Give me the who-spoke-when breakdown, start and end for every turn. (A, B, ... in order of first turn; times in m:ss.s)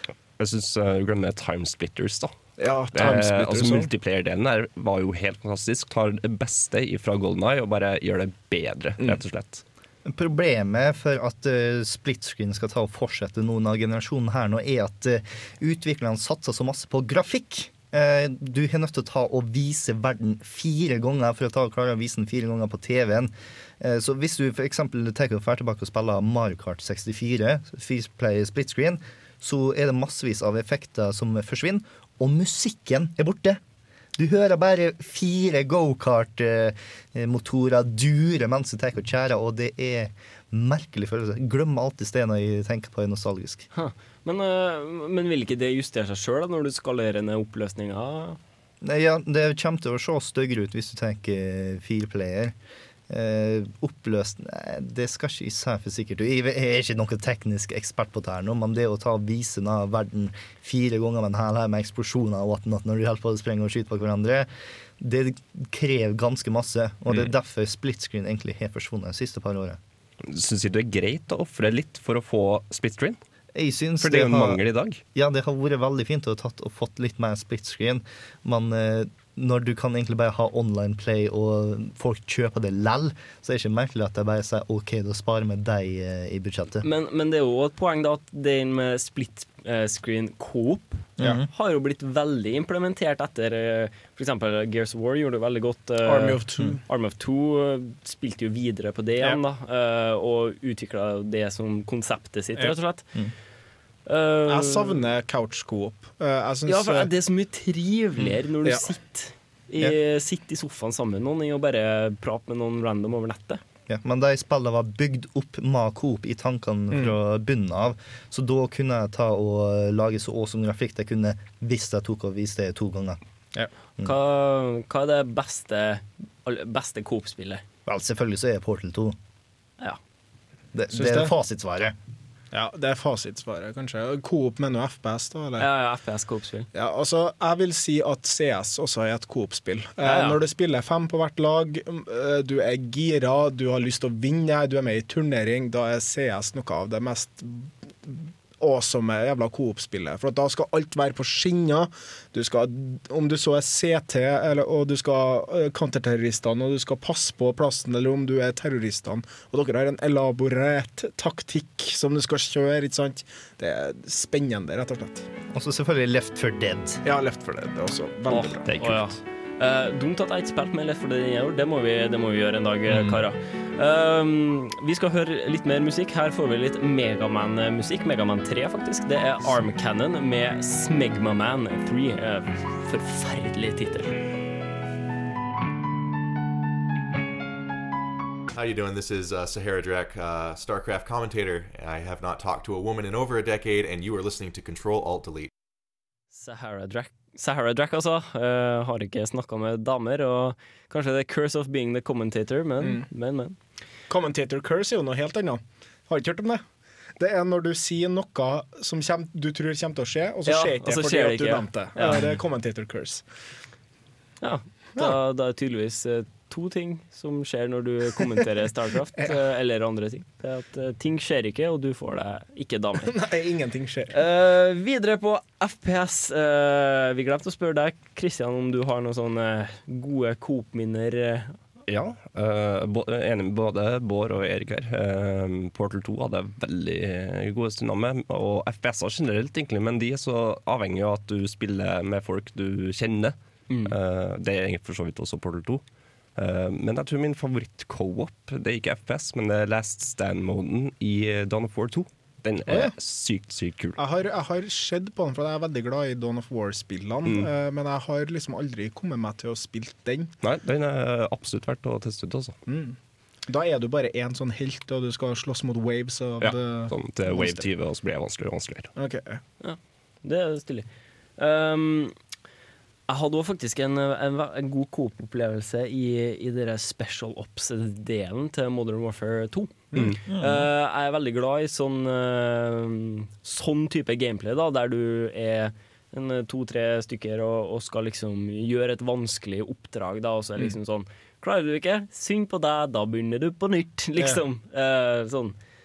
0:00.4-0:02.4 A
0:02.6-0:03.9 B
0:02.9-0:09.6 A
0:10.0-0:33.6 C
0:34.2-0:43.7 C
0:43.7-0:48.4 D
0:48.8-0:52.6 C
0:53.1-1:09.8 C
1:10.2-1:13.2 A
1:13.6-1:14.6 C
1:14.0-1:15.0 A
1:15.1-1:26.8 C
1:26.8-1:43.1 D
1:31.2-1:31.5 C
1:36.0-1:36.8 B
1:44.1-1:45.0 D
1:44.5-1:47.1 B
1:46.7-1:53.6 D
1:48.2-1:48.9 B
1:53.9-2:03.2 C
1:56.9-1:57.2 B
2:04.0-2:07.6 D
2:07.9-2:09.2 C
2:10.7-2:12.0 C
2:10.9-2:11.3 B
2:12.5-2:15.7 B
2:15.6-2:16.7 D
2:16.7-2:45.3 B
2:20.0-2:20.4 D
2:45.5-2:47.0 C
2:47.0-2:49.1 B
2:48.3-3:04.1 D
3:08.5-3:15.5 E
3:16.3-3:23.6 D
3:22.8-3:23.1 B
3:24.1-3:26.6 B
3:27.2-3:33.2 B
3:30.5-3:32.4 D
3:34.4-3:43.1 D
3:43.0-3:44.2 B
3:44.1-3:51.6 D
3:51.9-4:05.8 A
4:03.7-4:04.0 D
4:06.4-4:14.0 A
4:12.7-4:13.0 B
4:14.0-4:20.3 B
4:17.2-4:17.5 A
4:20.4-4:22.6 A
4:22.7-4:27.7 B
4:26.4-4:28.9 A
4:29.0-4:29.4 B
4:29.6-4:30.9 D
4:31.4-4:32.1 D
4:33.1-4:55.6 D
4:39.9-4:40.2 A
4:40.3-4:40.6 C